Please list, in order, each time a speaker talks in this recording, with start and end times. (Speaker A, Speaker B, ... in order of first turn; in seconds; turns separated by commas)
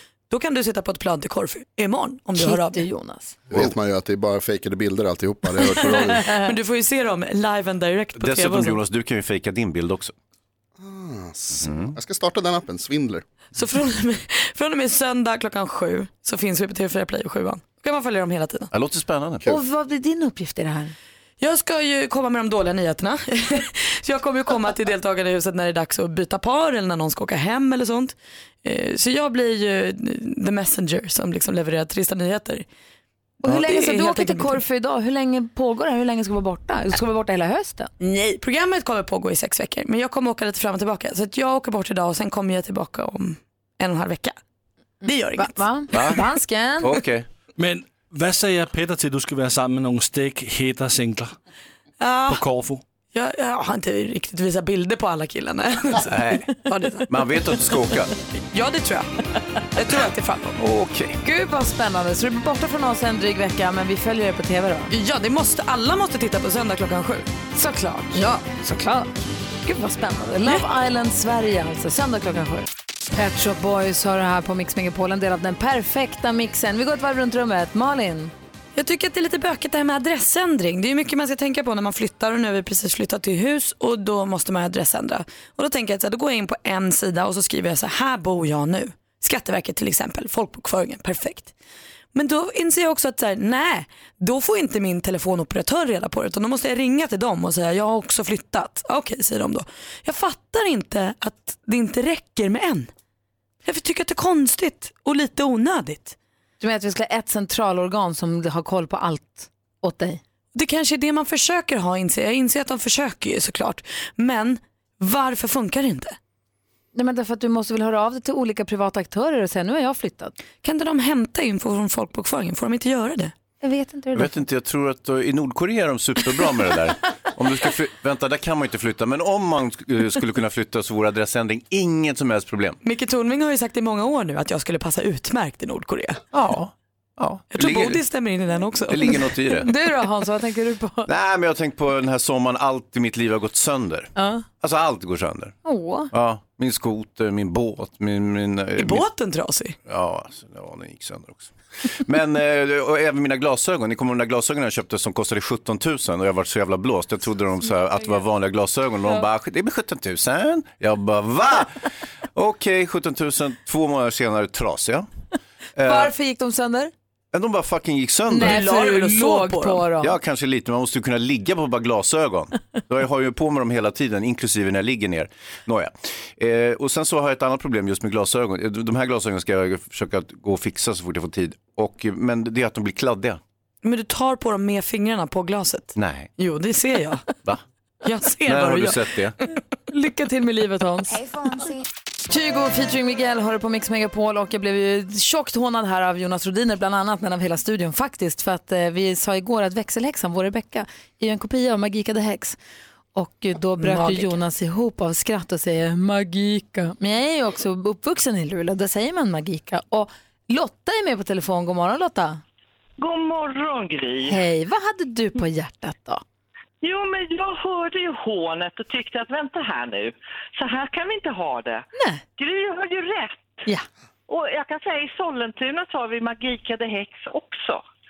Speaker A: 0.3-2.8, Speaker B: 2.4-3.4, Speaker C: 3.5-6.3, Speaker A: 5.7-8.8, Speaker B: 6.0-6.5, Speaker D: 8.2-10.2, Speaker C: 10.8-13.2, Speaker D: 11.5-12.0, Speaker A: 13.6-18.7, Speaker D: 18.7-19.6, Speaker B: 19.4-20.9, Speaker A: 21.4-32.6, Speaker B: 33.4-37.9, Speaker A: 33.5-34.6, Speaker A: 38.0-44.4, Speaker A: 45.0-46.1, Speaker B: 45.1-47.0, Speaker D: 45.9-46.2, Speaker D: 46.8-47.3, Speaker E: 47.6-51.3, Speaker A: 52.0-52.4, Speaker E: 52.3-52.8, Speaker A: 53.1-57.1, Speaker D: 56.1-56.5, Speaker D: 57.1-58.1, Speaker A: 58.5-60.6, Speaker D: 60.6-61.2, Speaker B: 61.2-64.9, Speaker A: 64.9-67.3, Speaker B: 67.5-69.1, Speaker A: 68.2-68.5, Speaker B: 69.7-78.3, Speaker A: 78.8-91.5, Speaker A: 92.1-102.9, Speaker A: 103.7-106.2, Speaker B: 106.6-110.2, Speaker A: 110.5-116.2, Speaker B: 116.9-120.3, Speaker A: 120.6-123.3, Speaker B: 123.6-124.4, Speaker D: 124.1-132.8, Speaker A: 132.8-136.2, Speaker D: 136.3-138.0, Speaker A: 137.5-139.3, Speaker D: 138.9-139.7, Speaker B: 139.6-141.1, Speaker D: 141.1-145.6, Speaker B: 144.2-144.5, Speaker B: 145.7-146.1, Speaker D: 146.1-149.1, Speaker A: 148.8-149.8, Speaker D: 149.9-165.1, Speaker D: 165.8-166.1, Speaker B: 165.8-166.9, Speaker D: 167.3-168.7, Speaker B: 168.3-170.2, Speaker A: 168.3-169.9, Speaker D: 170.0-183.4, Speaker A: 183.8-187.3, Speaker D: 186.0-186.3, Speaker A: 188.0-189.1, Speaker D: 188.4-189.4, Speaker B: 189.9-191.5, Speaker B: 192.3-202.6, Speaker B: 203.2-212.4, Speaker A: 203.8-204.3, Speaker F: 213.0-214.4, Speaker B: 214.2-216.2, Speaker F: 216.8-221.9, Speaker B: 221.9-222.2, Speaker F: 222.4-223.7, Speaker F: 224.3-227.8